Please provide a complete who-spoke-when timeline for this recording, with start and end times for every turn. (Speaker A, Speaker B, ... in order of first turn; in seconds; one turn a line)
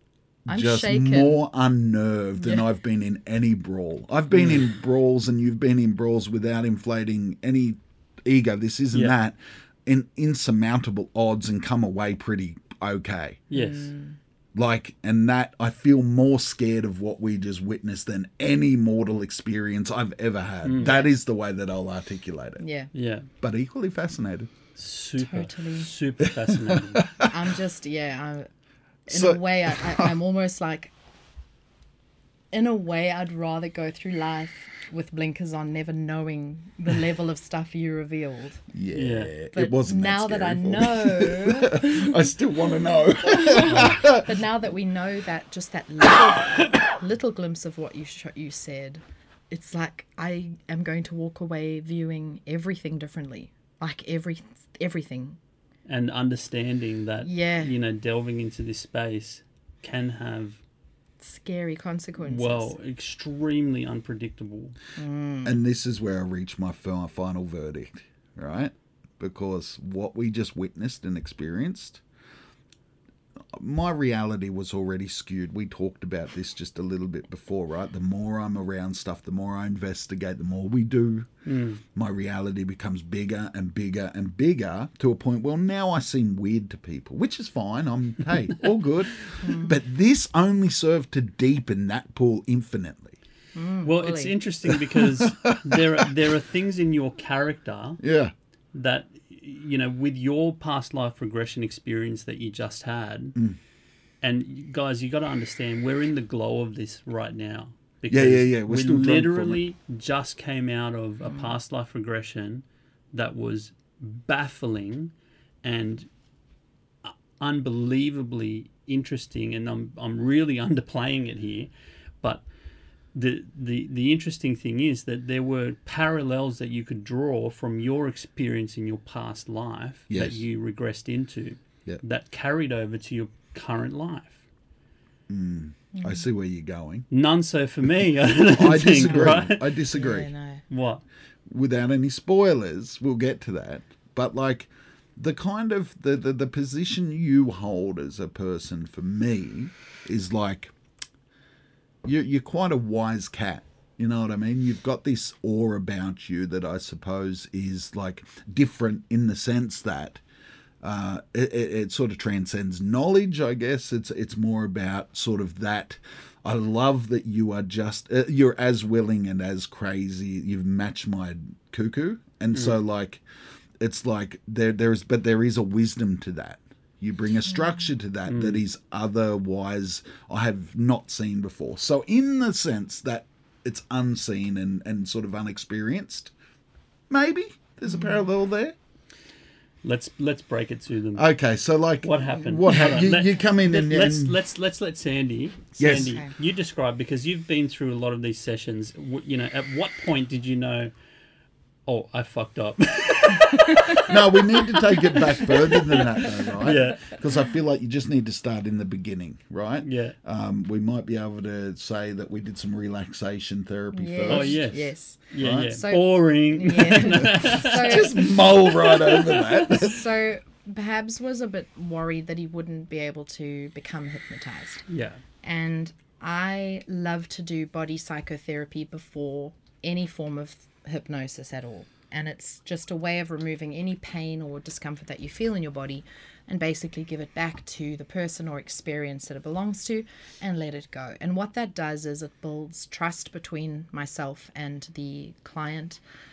Speaker A: 0.5-13.4
Speaker B: 0.5-1.4
Speaker B: 2.4-2.7
Speaker C: 4.3-4.7
Speaker C: 13.5-13.9
Speaker B: 13.5-14.2
Speaker A: 14.5-22.6
Speaker C: 20.6-20.9
Speaker B: 20.8-21.1
Speaker B: 22.6-22.9
Speaker C: 22.9-23.3
Speaker A: 23.4-24.5
Speaker C: 24.8-27.1
Speaker B: 25.2-25.9
Speaker A: 26.3-27.3
Speaker B: 27.2-28.5
Speaker B: 29.1-30.9
Speaker A: 29.1-30.1
Speaker B: 32.5-38.7
Speaker A: 38.7-44.4
Speaker C: 38.9-39.3
Speaker B: 39.5-42.3
Speaker B: 43.2-55.4
Speaker C: 43.7-44.0
Speaker C: 55.9-60.6
Speaker B: 57.2-57.7
Speaker B: 61.2-62.7
Speaker C: 62.2-64.8
Speaker B: 65.0-65.6
Speaker A: 65.4-72.0
Speaker A: 73.5-81.3
Speaker C: 81.5-81.8
Speaker A: 81.9-93.2
Speaker B: 89.4-89.7
Speaker B: 93.5-94.3
Speaker C: 93.8-98.0
Speaker A: 94.7-96.0
Speaker A: 98.0-98.3
Speaker C: 98.7-103.4
Speaker C: 104.2-116.1
Speaker A: 108.1-109.6
Speaker B: 111.2-111.5
Speaker C: 117.0-122.4
Speaker C: 123.1-134.4
Speaker A: 130.1-130.4
Speaker A: 135.3-137.1
Speaker B: 135.9-136.2
Speaker C: 137.1-139.7
Speaker A: 138.5-140.3
Speaker B: 139.0-140.6
Speaker C: 140.7-141.0
Speaker A: 141.5-150.7
Speaker A: 152.0-160.2
Speaker A: 160.8-173.2
Speaker C: 172.5-172.8
Speaker A: 173.8-186.3
Speaker C: 178.3-178.6
Speaker A: 187.1-188.8
Speaker B: 187.8-188.2
Speaker C: 189.8-191.2
Speaker A: 191.1-194.3
Speaker C: 192.0-200.9
Speaker A: 195.8-196.2
Speaker B: 196.0-196.3
Speaker C: 201.9-207.2
Speaker B: 203.8-204.1
Speaker A: 204.0-214.7
Speaker C: 209.8-210.1
Speaker B: 213.9-224.8
Speaker C: 214.3-218.2
Speaker A: 215.4-215.8
Speaker A: 217.6-220.0
Speaker C: 224.9-225.2
Speaker B: 225.4-246.0